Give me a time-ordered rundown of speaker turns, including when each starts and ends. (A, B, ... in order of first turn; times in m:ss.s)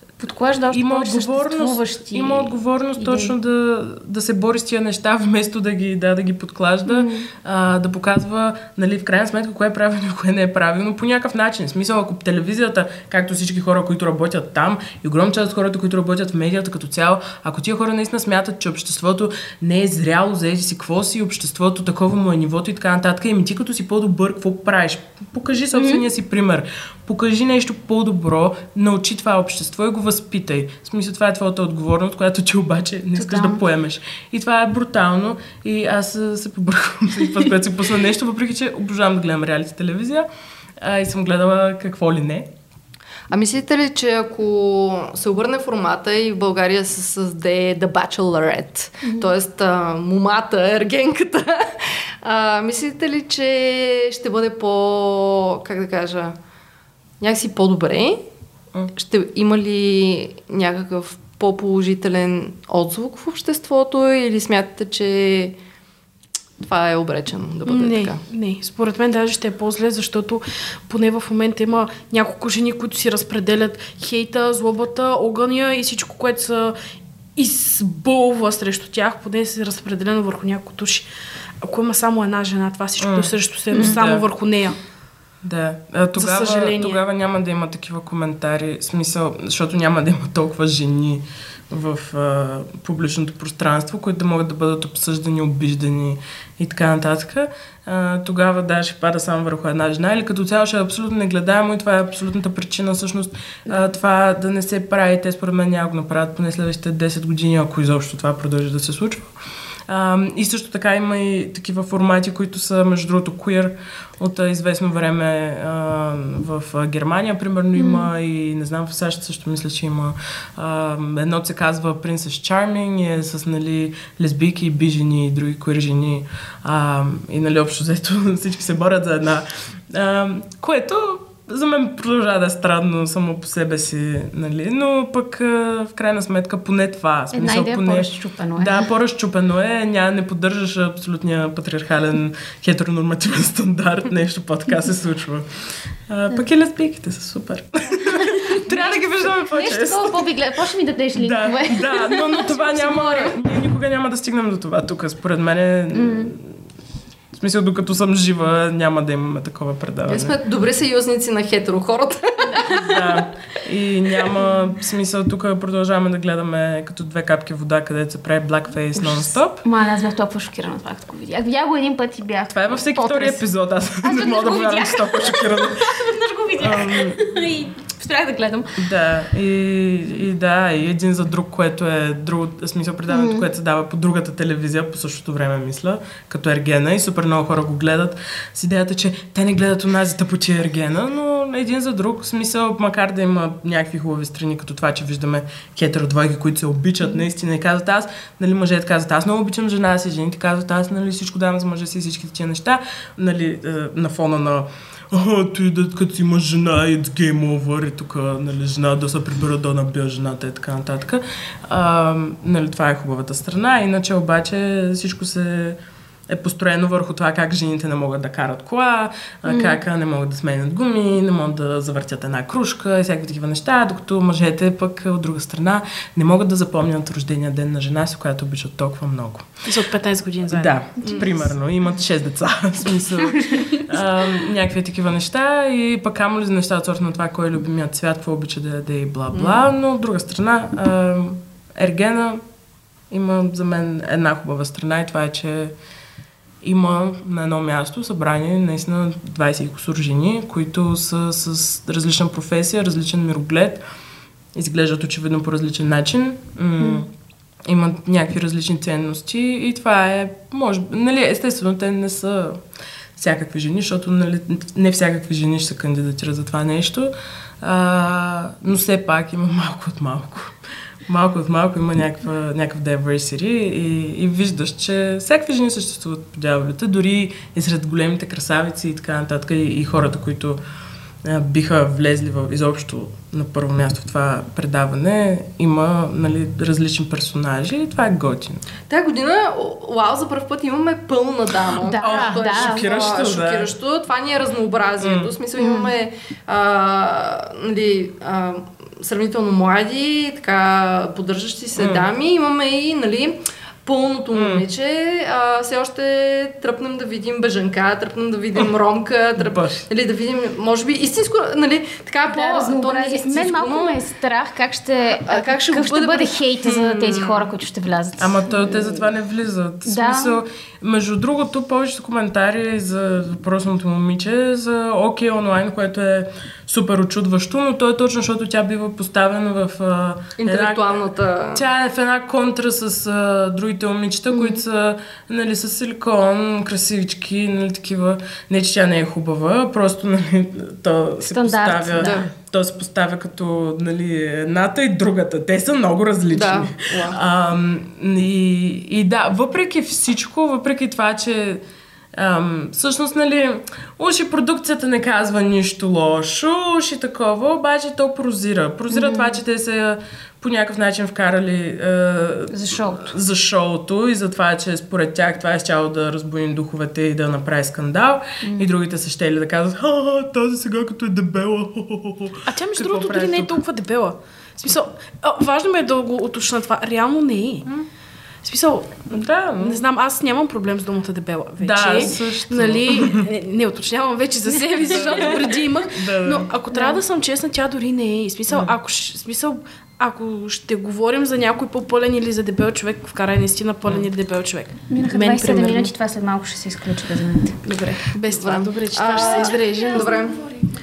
0:00.2-0:03.3 A
0:00.7-0:40.3 B
0:06.8-0:07.3 A
0:25.7-0:26.0 A
0:33.2-0:33.6 A
0:40.8-0:42.5 B
0:43.3-0:56.4 C
0:57.2-0:58.2 C
0:58.9-1:05.6 C
1:06.6-1:08.2 C
1:07.7-1:16.8 D
1:17.4-1:21.1 D
1:21.6-1:24.8 D
1:23.0-1:24.2 B
1:23.7-1:24.0 A
1:25.4-1:49.3 B
1:26.2-1:27.0 D
1:49.9-2:25.5 B
1:57.8-1:58.1 A
2:17.3-2:18.9 A
2:26.1-2:30.2 B
2:28.1-2:28.7 A
2:29.5-2:33.3 A
2:31.2-2:36.6 B
2:35.9-2:36.3 A
2:37.3-2:40.3 B
2:40.1-2:43.1 C
2:42.5-2:42.8 A
2:42.7-2:49.6 B
2:49.0-2:53.4 A
2:52.5-2:56.0 B
2:54.0-2:58.9 A
2:56.6-2:57.2 B
2:58.8-3:49.5 B
3:03.1-3:03.5 A
3:39.5-3:39.8 A
3:49.6-3:51.2 D
3:50.5-4:02.4 B
3:53.2-3:53.8 A
3:59.3-3:59.6 C
4:03.1-4:05.7 B
4:06.6-4:13.8 B
4:14.5-4:17.1 B
4:17.6-4:22.6 B
4:23.2-4:40.6 B
4:41.2-4:48.6 B
4:48.9-5:14.0 C
4:51.8-4:52.8 A
4:52.0-4:53.7 B
4:55.0-4:55.3 B
4:55.6-4:55.9 A
5:01.8-5:02.1 B
5:04.3-5:04.6 B
5:09.4-5:09.8 B
5:12.3-5:19.0 A
5:15.2-5:17.4 C
5:18.2-5:51.6 B
5:19.8-5:20.4 A
5:30.4-5:31.6 C
5:34.3-5:34.6 A
5:41.3-5:42.3 A
5:42.0-5:42.2 C
5:46.3-5:47.2 C
5:52.1-6:13.6 B
5:58.9-5:59.4 A
6:02.5-6:03.1 A
6:08.4-6:08.7 A
6:12.4-6:17.6 D
6:18.4-6:35.9 D
6:19.1-6:19.8 B
6:21.6-6:23.3 B
6:24.5-6:25.2 A
6:24.8-6:26.5 B
6:26.7-6:27.0 A
6:34.9-6:38.0 A
6:37.6-6:40.4 D
6:38.2-6:40.4 C
6:39.2-6:39.6 A